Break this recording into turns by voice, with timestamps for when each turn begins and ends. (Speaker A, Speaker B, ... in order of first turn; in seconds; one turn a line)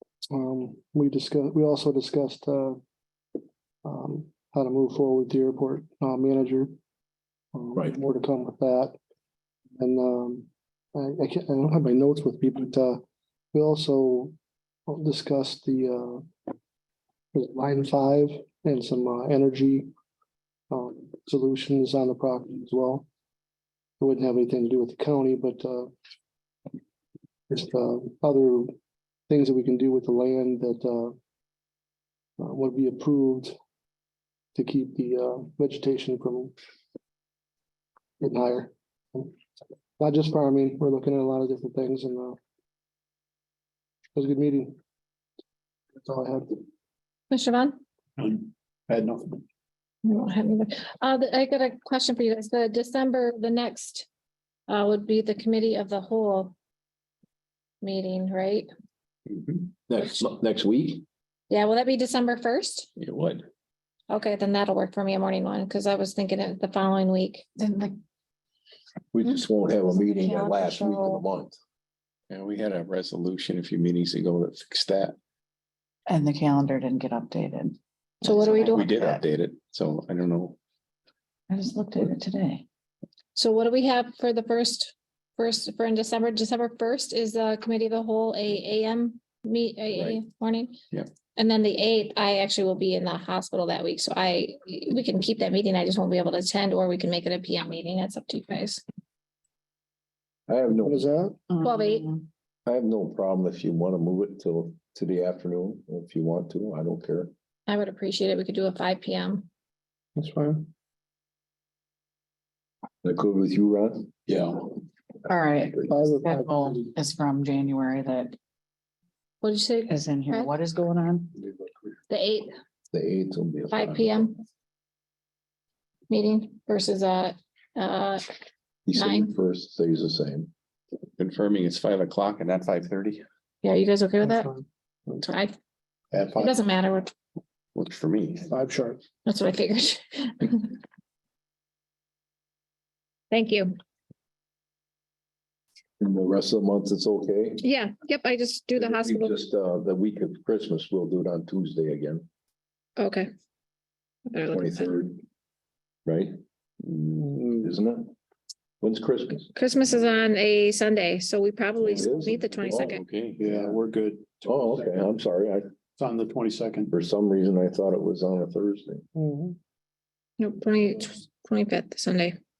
Speaker A: 0.3-2.8
Speaker A: 3.8-6.7
Speaker A: 7.5-8.9
Speaker A: 9.8-13.0
Speaker A: 13.5-14.3
Speaker A: 14.9-16.2
Speaker A: 17.3-19.9
Speaker A: 20.7-23.1
Speaker A: 24.0-25.9
Speaker A: 27.5-28.7
Speaker A: 29.3-31.1
Speaker A: 32.4-33.5
Speaker A: 34.5-36.5
Speaker A: 38.2-39.4
Speaker A: 40.0-42.4
Speaker A: 44.1-44.8
Speaker A: 46.0-46.6
Speaker B: 47.3-47.8
Speaker B: 50.0-54.1
Speaker B: 54.7-56.5
Speaker B: 57.8-58.7
Speaker C: 59.9-61.0
Speaker B: 61.5-62.9
Speaker D: 63.0-63.4
Speaker B: 64.1-67.4
Speaker E: 67.5-68.0
Speaker C: 69.1-71.6
Speaker E: 69.9-71.2
Speaker D: 72.3-75.2
Speaker E: 76.1-79.2
Speaker B: 78.2-78.8
Speaker D: 78.7-80.6
Speaker E: 81.5-82.6
Speaker B: 83.3-90.8
Speaker C: 89.9-90.2
Speaker B: 91.3-98.8
Speaker C: 100.5-101.0
Speaker A: 100.7-101.4
Speaker E: 101.5-102.2
Speaker B: 101.6-102.1
Speaker C: 102.7-107.3
Speaker B: 107.7-109.5
Speaker A: 110.2-110.7
Speaker C: 113.0-114.1
Speaker E: 115.2-118.3
Speaker A: 115.9-116.9
Speaker B: 119.4-120.5
Speaker E: 119.9-121.3
Speaker B: 122.1-122.5
Speaker C: 122.9-124.2
Speaker B: 123.7-124.4
Speaker B: 126.1-128.2
Speaker C: 128.9-130.5
Speaker B: 128.9-129.3
Speaker D: 131.2-133.2
Speaker B: 133.6-134.5
Speaker B: 135.2-135.5
Speaker D: 136.1-136.5
Speaker B: 136.3-137.1
Speaker D: 137.7-138.5
Speaker A: 138.5-139.0
Speaker B: 139.2-140.7
Speaker B: 143.3-143.7
Speaker C: 146.0-147.6
Speaker B: 147.6-149.3
Speaker C: 148.8-152.3
Speaker B: 153.0-153.3
Speaker B: 154.3-154.9
Speaker C: 154.5-155.2
Speaker C: 156.1-158.1
Speaker C: 158.8-159.5
Speaker B: 159.5-163.0
Speaker C: 161.8-163.5
Speaker D: 162.8-163.8
Speaker F: 163.4-165.0
Speaker C: 164.4-165.6
Speaker F: 166.0-166.9
Speaker C: 166.9-169.0
Speaker A: 169.2-169.6
Speaker B: 170.4-172.3